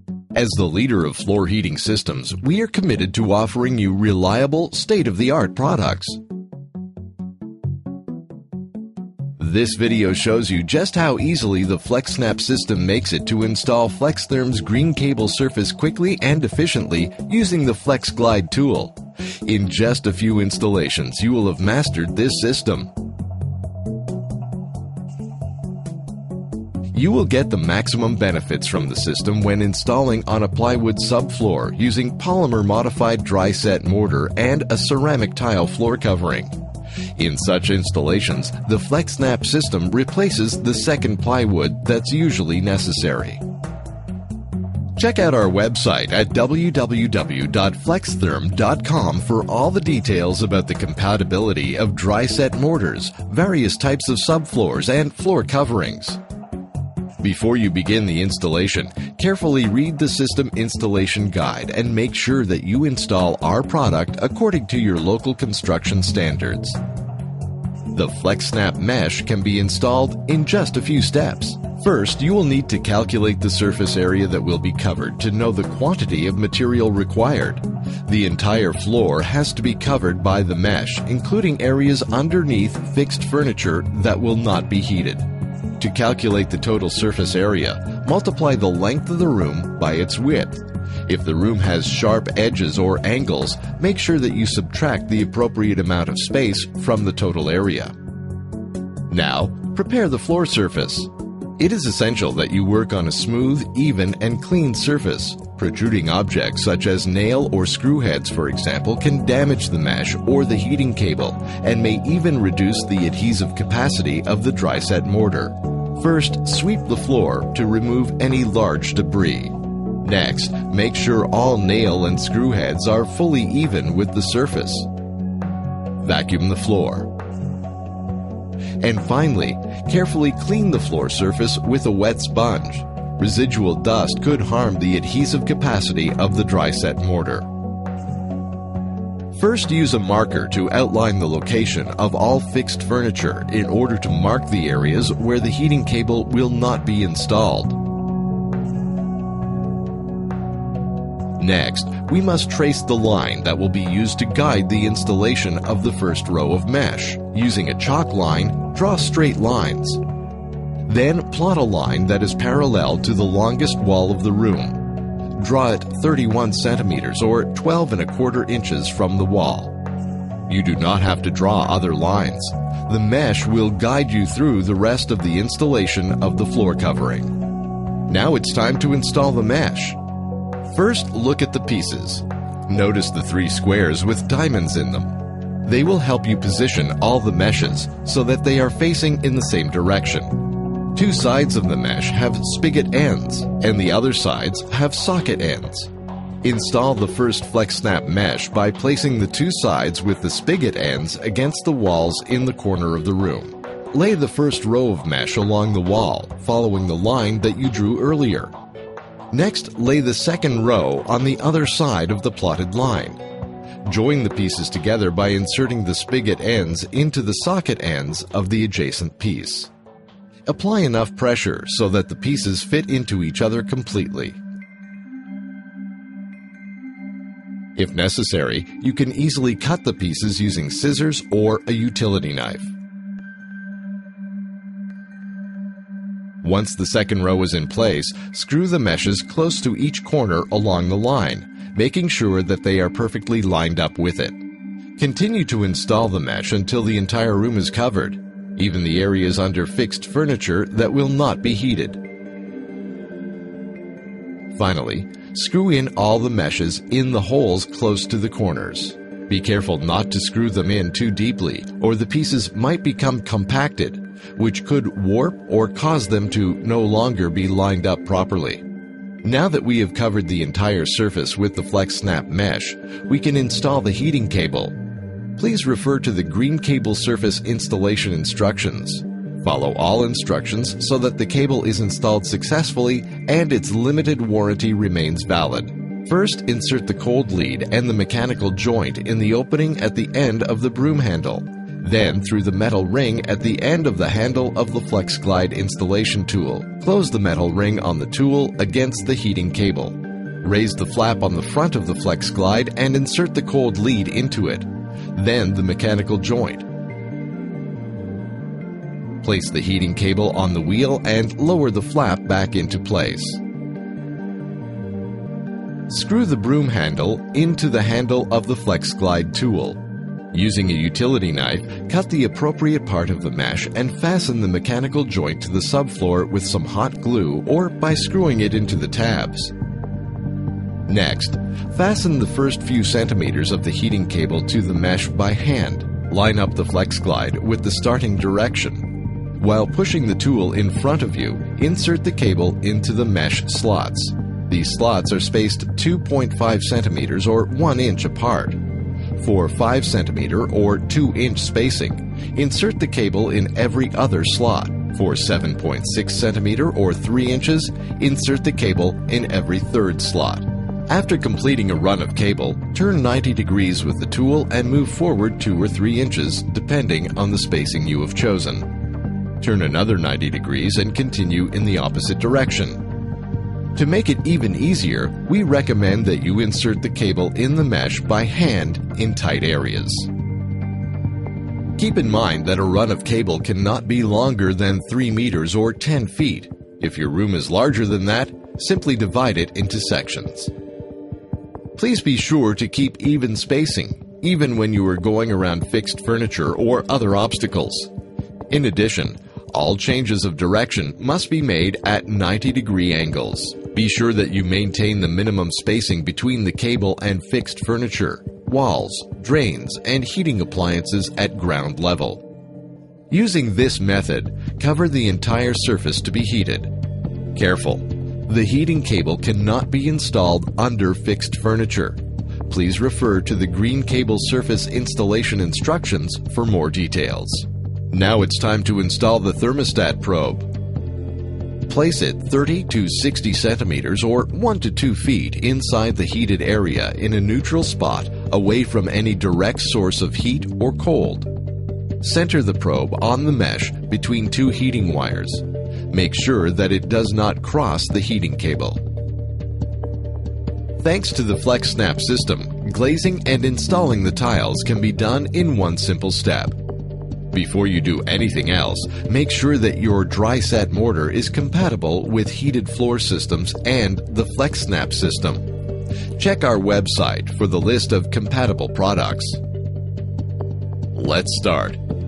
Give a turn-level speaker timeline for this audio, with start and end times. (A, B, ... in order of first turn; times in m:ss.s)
0:00.3-0:06.2 A
0:09.4-0:22.9 A
0:26.9-0:36.6 A
0:37.2-0:43.4 A
0:45.0-0:56.2 A
0:57.2-1:06.8 A
1:07.9-1:25.2 A
1:25.8-1:37.9 A
1:39.1-2:04.9 A
2:06.0-2:07.1 A
2:08.8-2:17.5 A
2:19.3-2:27.8 A
2:31.4-2:40.0 A
2:40.8-2:49.8 A
2:50.5-2:57.4 A
2:58.1-3:00.0 A
3:00.7-3:10.4 A
3:10.9-3:15.9 A
3:16.4-3:28.5 A
3:29.3-3:33.2 A
3:33.8-3:39.7 A
3:40.4-3:44.4 A
3:47.8-3:52.7 A
3:56.4-4:04.4 A
4:05.0-4:12.0 A
4:14.5-4:28.6 A
4:29.2-4:34.8 A
4:35.4-5:06.7 A
5:09.2-5:13.4 A
5:15.9-5:19.8 A
5:20.3-5:29.5 A
5:30.9-5:48.6 A
5:49.2-6:08.7 A
6:09.4-6:12.8 A
6:13.7-6:20.1 A
6:21.8-6:30.5 A
6:31.8-6:37.9 A
6:38.5-6:52.2 A
6:53.1-6:56.7 A
6:57.3-7:10.5 A
7:11.7-7:21.3 A
7:22.0-7:28.8 A
7:30.8-7:36.6 A
7:37.3-7:45.5 A
7:46.2-7:49.4 A
7:50.9-7:51.8 A